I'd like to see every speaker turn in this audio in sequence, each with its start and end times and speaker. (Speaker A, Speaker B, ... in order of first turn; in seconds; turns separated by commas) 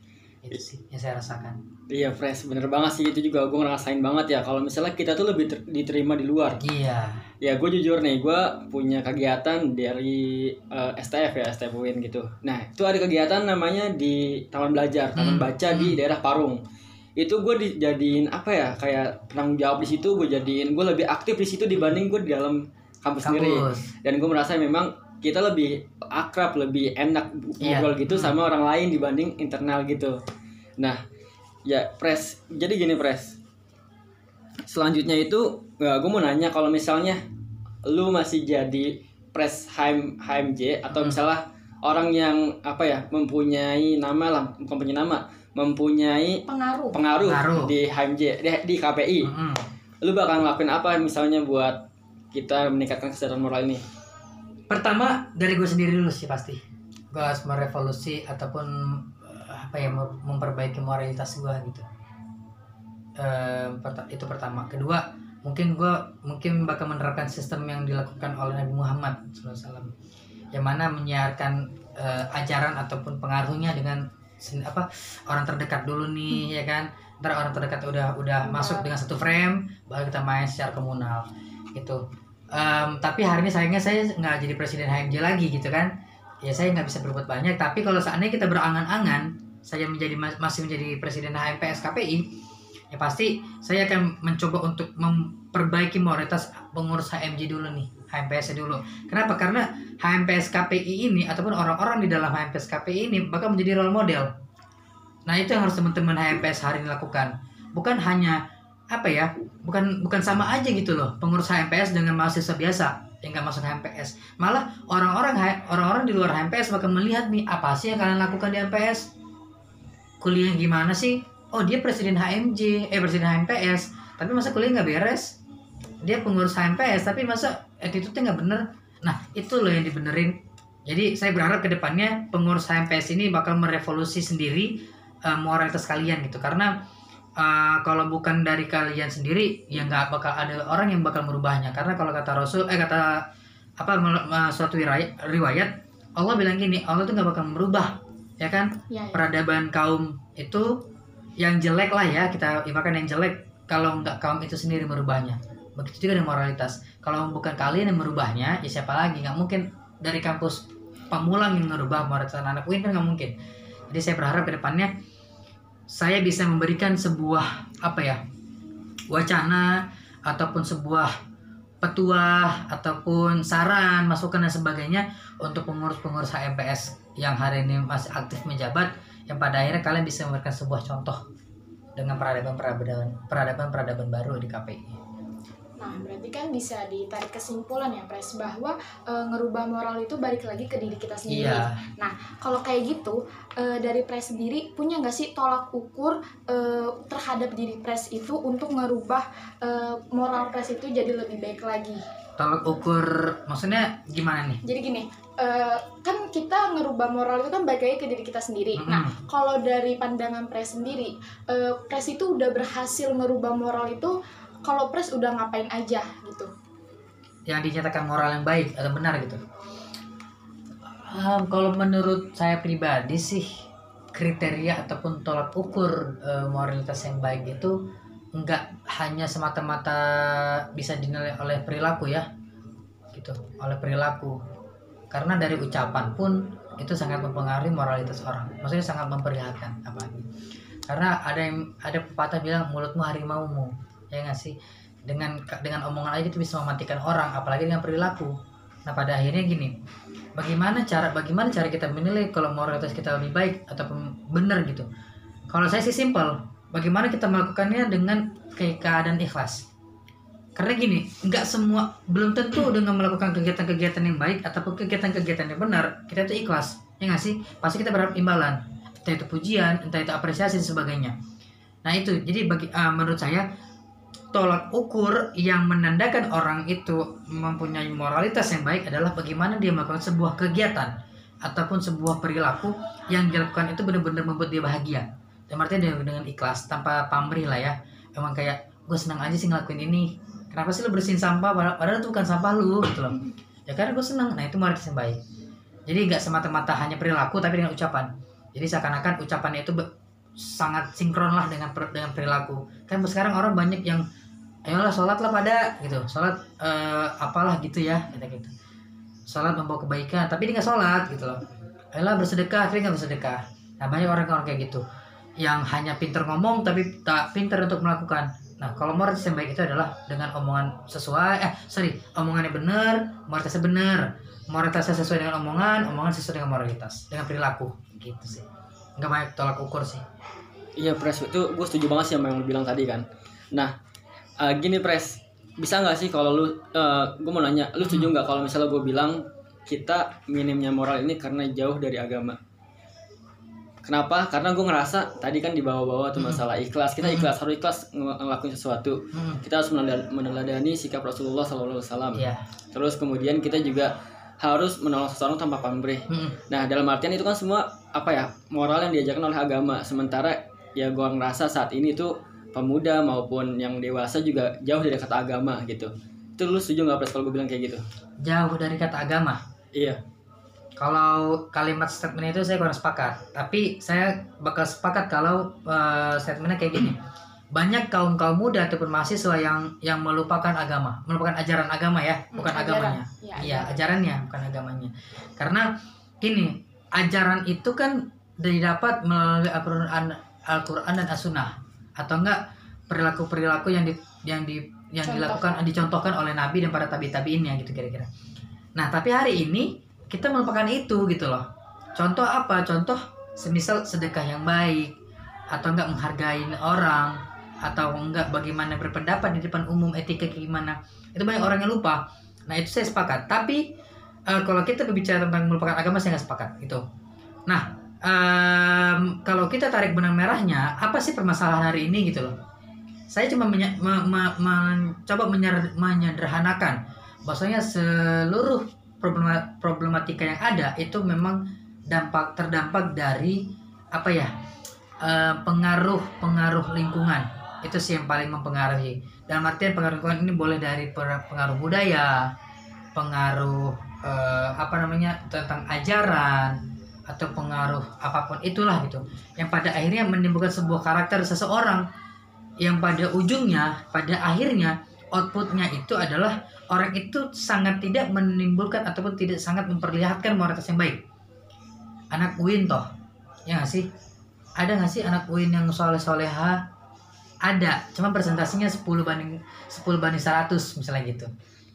Speaker A: 0.4-1.6, Speaker B: 1.9-6.6, Speaker A: 6.6-7.3, Speaker B: 7.4-16.6, Speaker A: 15.2-16.0, Speaker B: 17.2-30.2, Speaker A: 23.2-23.9, Speaker A: 27.6-28.3, Speaker B: 31.6-33.4, Speaker B: 34.6-37.2, Speaker B: 37.9-46.4, Speaker A: 40.9-41.2, Speaker C: 46.5-47.0, Speaker B: 46.9-49.3, Speaker A: 47.2-47.7, Speaker A: 49.2-49.7, Speaker B: 50.0-51.8, Speaker B: 52.3-53.8, Speaker A: 54.7-61.8, Speaker A: 63.2-69.9, Speaker A: 70.5-82.0, Speaker C: 78.4-78.9, Speaker A: 82.5-92.3, Speaker A: 92.9-104.3, Speaker A: 105.3-108.4, Speaker A: 108.9-119.1, Speaker A: 120.2-125.3, Speaker A: 126.0-136.7, Speaker A: 137.4-143.2, Speaker A: 143.8-150.8, Speaker C: 148.9-149.2, Speaker A: 151.4-163.3, Speaker A: 163.9-164.9, Speaker A: 165.9-168.2, Speaker A: 169.1-171.1, Speaker A: 171.8-181.2, Speaker A: 182.0-185.0, Speaker C: 185.8-202.0, Speaker A: 191.3-191.8, Speaker A: 202.4-204.6, Speaker C: 204.6-216.5, Speaker A: 208.8-209.2, Speaker A: 217.5-219.4, Speaker A: 220.8-223.5, Speaker A: 224.1-227.8, Speaker A: 228.3-232.3, Speaker A: 233.1-234.4, Speaker A: 235.1-240.3, Speaker A: 240.9-249.7, Speaker A: 250.3-254.9, Speaker A: 255.5-259.6, Speaker A: 260.6-271.1, Speaker A: 271.8-273.5, Speaker A: 274.3-280.9, Speaker A: 281.4-295.2, Speaker A: 295.9-304.0, Speaker A: 304.6-308.5, Speaker A: 309.3-311.4, Speaker A: 311.9-314.8, Speaker A: 315.4-328.4, Speaker A: 329.0-330.0, Speaker B: 330.8-333.7, Speaker B: 334.4-342.4, Speaker A: 337.8-338.1, Speaker B: 343.8-367.8, Speaker A: 346.2-346.4, Speaker A: 347.0-347.3, Speaker A: 349.1-349.4, Speaker A: 352.1-352.4, Speaker A: 356.1-356.4, Speaker A: 368.2-369.4, Speaker B: 369.7-370.0, Speaker A: 370.8-377.0, Speaker A: 377.5-398.1, Speaker C: 382.3-383.8, Speaker C: 395.0-395.6, Speaker A: 398.7-404.9, Speaker A: 405.5-413.6, Speaker A: 414.3-416.8, Speaker A: 417.5-422.3, Speaker A: 423.1-434.3, Speaker A: 435.0-442.3, Speaker A: 442.9-451.8, Speaker A: 452.6-461.0, Speaker A: 462.1-462.9, Speaker A: 463.4-463.9, Speaker A: 464.6-466.6, Speaker A: 467.4-471.3